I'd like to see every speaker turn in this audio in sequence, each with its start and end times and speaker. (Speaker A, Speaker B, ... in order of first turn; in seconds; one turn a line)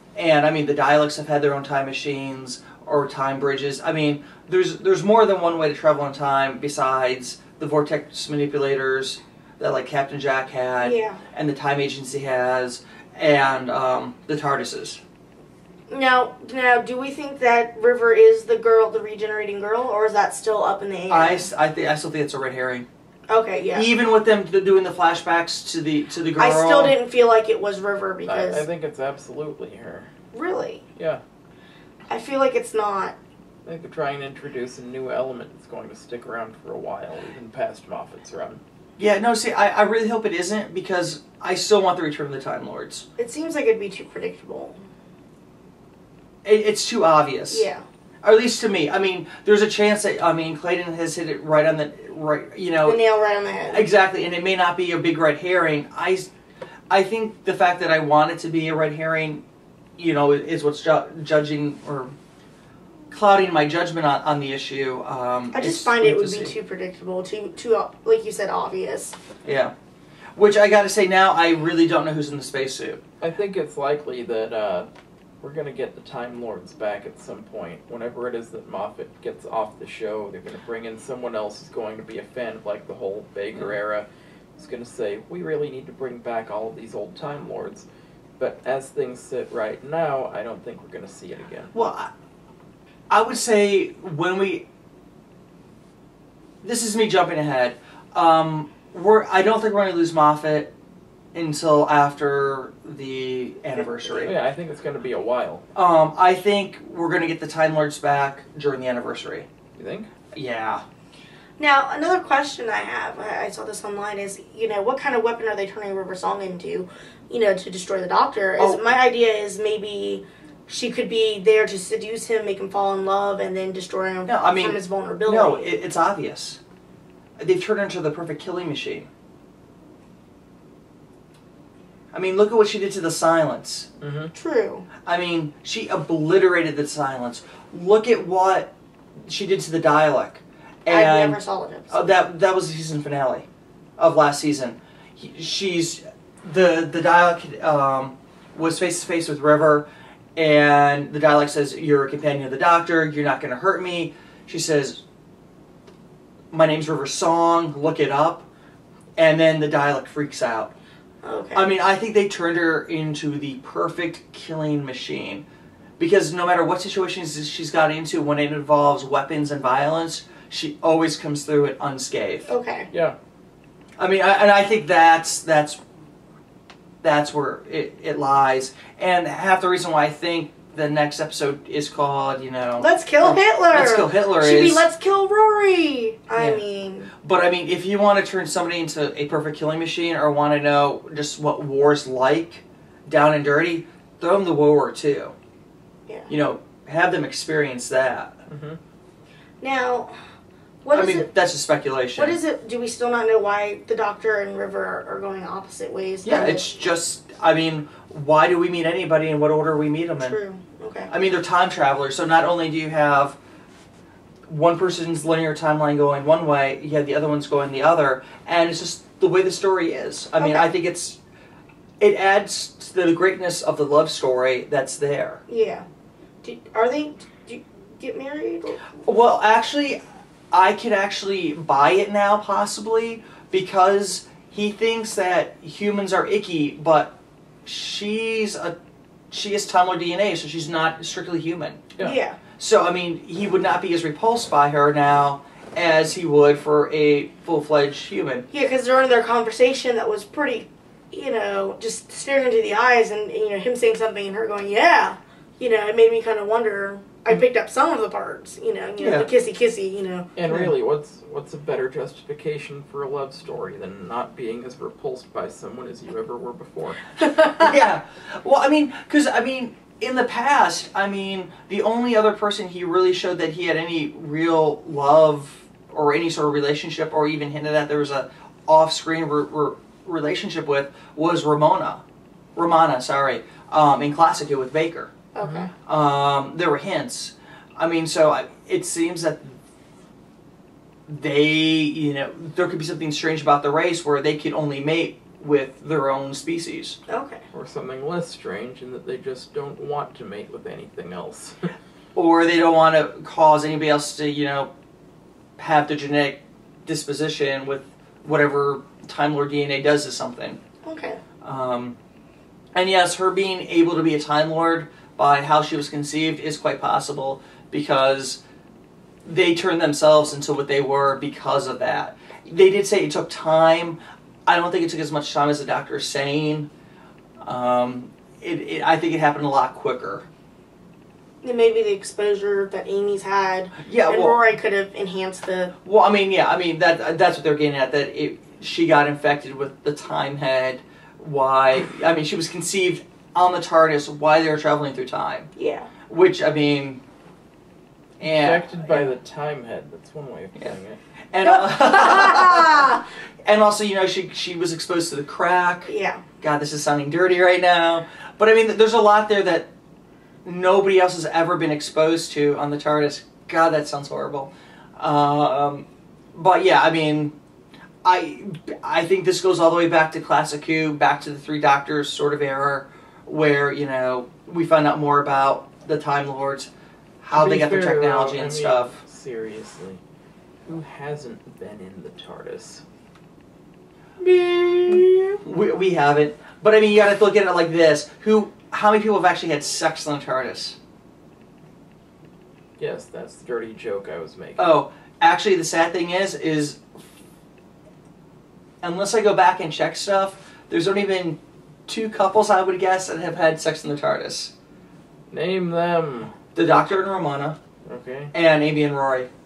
Speaker A: 0.1-15.0
Speaker B: 10.8-11.2
Speaker B: 15.9-21.5
Speaker A: 21.1-22.9
Speaker B: 23.3-23.9
Speaker A: 23.7-27.0
Speaker B: 26.4-28.7
Speaker C: 28.2-30.1
Speaker B: 30.3-30.8
Speaker C: 31.0-31.2
Speaker B: 32.1-33.2
Speaker C: 33.6-38.6
Speaker A: 39.0-43.0
Speaker B: 43.2-44.8
Speaker A: 46.4-47.7
Speaker B: 47.5-47.8
Speaker A: 48.2-53.0
Speaker B: 52.9-53.9
Speaker A: 53.7-56.3
Speaker A: 56.9-59.4
Speaker A: 60.0-62.1
Speaker A: 63.1-66.5
Speaker B: 65.5-69.2
Speaker A: 69.5-69.7
Speaker A: 70.4-73.0
Speaker C: 73.2-74.9
Speaker C: 75.4-87.9
Speaker C: 88.4-91.7
Speaker A: 91.7-92.1
Speaker A: 93.1-94.7
Speaker A: 96.6-100.7
Speaker A: 101.3-104.3
Speaker B: 103.8-104.3
Speaker C: 104.2-105.6
Speaker A: 105.8-109.5
Speaker C: 109.8-110.1
Speaker A: 110.3-110.8
Speaker B: 111.6-125.8
Speaker A: 124.3-126.6
Speaker A: 127.4-129.1
Speaker A: 132.1-133.9
Speaker C: 134.0-134.3
Speaker B: 134.3-134.9
Speaker A: 135.1-138.7
Speaker A: 139.3-141.4
Speaker B: 140.9-142.1
Speaker A: 141.9-143.5
Speaker A: 144.0-155.0
Speaker A: 156.5-158.5
Speaker A: 159.2-160.7
Speaker B: 161.2-161.7
Speaker A: 161.6-165.4
Speaker A: 166.0-172.5
Speaker B: 172.5-172.9
Speaker C: 172.9-173.2
Speaker A: 174.0-175.8
Speaker A: 177.0-184.9
Speaker B: 182.8-187.1
Speaker A: 186.4-186.6
Speaker A: 187.2-195.3
Speaker A: 196.3-198.4
Speaker C: 198.5-198.8
Speaker B: 199.6-200.2
Speaker B: 200.8-201.3
Speaker A: 200.9-202.4
Speaker B: 202.2-206.7
Speaker A: 206.2-210.4
Speaker B: 210.2-211.1
Speaker A: 211.1-213.4
Speaker A: 214.5-221.2
Speaker B: 220.4-220.7
Speaker A: 222.0-225.4
Speaker B: 225.5-225.9
Speaker B: 226.4-229.0
Speaker A: 229.1-230.0
Speaker A: 230.5-238.8
Speaker A: 239.3-241.9
Speaker B: 242.0-242.4
Speaker A: 242.6-248.5
Speaker B: 248.5-260.3
Speaker A: 259.0-259.3
Speaker C: 260.4-267.2
Speaker A: 260.5-260.7
Speaker B: 267.2-267.7
Speaker A: 267.6-282.0
Speaker A: 282.6-285.1
Speaker B: 285.3-285.7
Speaker C: 285.4-285.7
Speaker A: 285.9-289.6
Speaker A: 291.1-297.0
Speaker B: 297.1-297.4
Speaker C: 297.5-301.6
Speaker A: 302.1-304.7
Speaker A: 305.6-310.6
Speaker B: 310.8-311.2
Speaker A: 311.4-312.0
Speaker A: 312.7-318.4
Speaker A: 319.2-326.7
Speaker A: 327.4-330.3
Speaker B: 331.4-335.7
Speaker A: 333.8-334.4
Speaker A: 335.8-345.5
Speaker B: 345.6-345.9
Speaker A: 346.1-347.0
Speaker A: 348.2-349.1
Speaker C: 348.2-351.0
Speaker A: 351.3-359.7
Speaker B: 351.4-353.0
Speaker B: 355.9-356.2
Speaker A: 360.4-367.4
Speaker A: 368.0-376.7
Speaker A: 377.2-379.0
Speaker C: 377.3-380.0
Speaker C: 380.7-382.8
Speaker B: 384.2-385.4
Speaker A: 384.9-390.8
Speaker C: 392.8-394.7
Speaker A: 394.6-396.8
Speaker A: 398.8-404.5
Speaker C: 405.3-406.3
Speaker A: 406.6-407.6
Speaker C: 407.9-408.3
Speaker A: 408.3-409.3